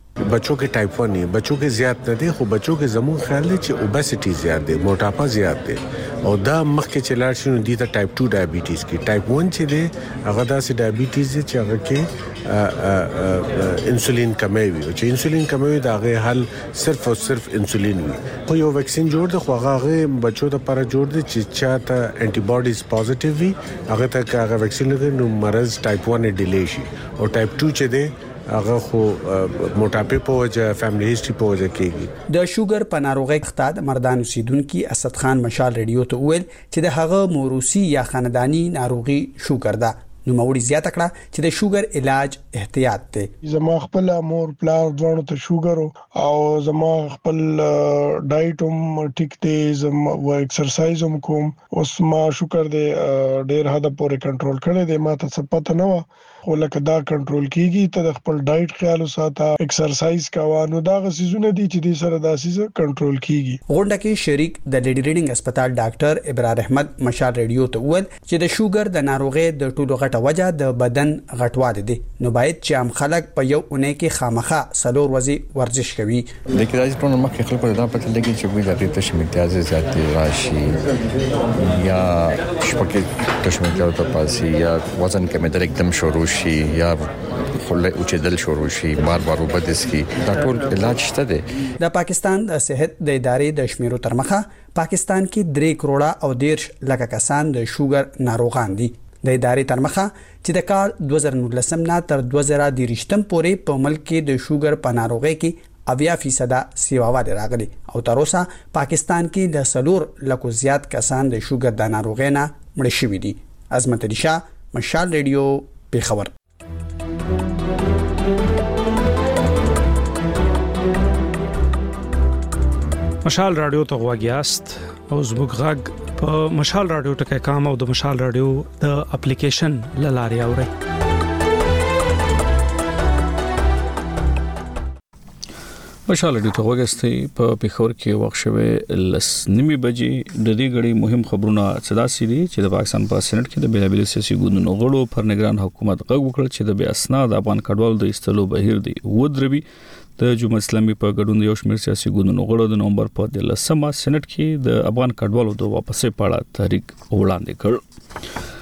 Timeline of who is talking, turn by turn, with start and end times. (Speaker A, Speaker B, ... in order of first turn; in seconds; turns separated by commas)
Speaker A: 0.2-32.1, Speaker B: 32.3-43.3, Speaker C: 43.4-63.6, Speaker B: 63.7-76.3, Speaker D: 76.5-80.8, Speaker D: 81.6-91.5, Speaker B: 91.8-116.3, Speaker E: 123.3-129.8, Speaker F: 136.1-149.6, Speaker F: 150.2-157.8